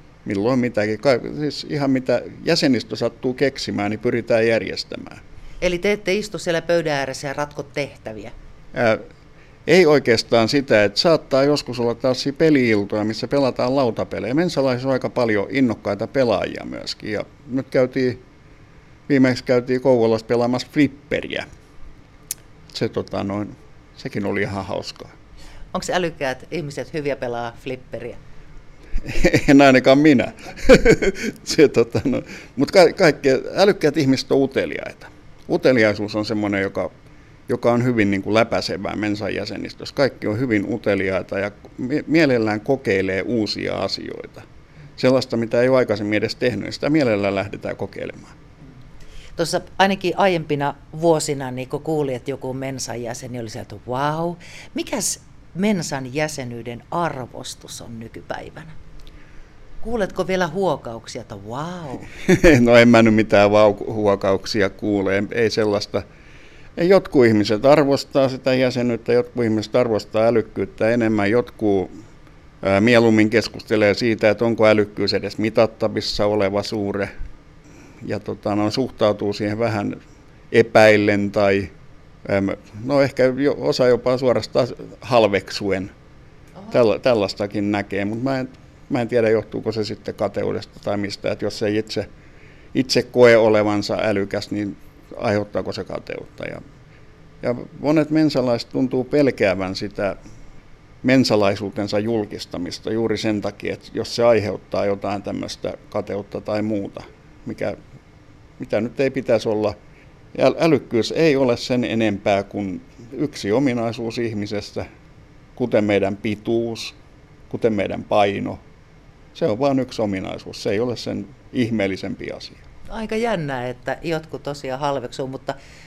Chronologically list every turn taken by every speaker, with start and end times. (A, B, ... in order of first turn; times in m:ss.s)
0:00.2-0:05.2 A
0:05.6-0:08.3 B
0:08.7-0:09.0 A
0:09.6-0:18.2 A
0:19.1-0:21.4 A
0:22.7-0:25.1 A
0:25.7-0:28.2 B
0:29.0-0:36.9 A
0:37.5-0:44.4 A
0:45.0-0:48.3 A
0:49.4-0:58.7 B
0:59.8-1:02.1 B
1:02.2-1:06.0 A
1:06.8-1:11.9 A
1:12.6-1:17.1 A
1:18.0-1:20.0 A
1:20.5-1:21.7 A
1:22.2-1:25.9 A
1:26.7-1:32.1 A
1:32.7-1:36.6 A
1:37.4-1:40.2 A
1:41.0-1:47.8 A
1:48.6-1:49.8 A
1:50.3-1:54.8 A
1:55.6-1:57.0 A
1:57.5-1:58.6 A
1:59.3-2:02.6 A
2:02.9-2:05.6 B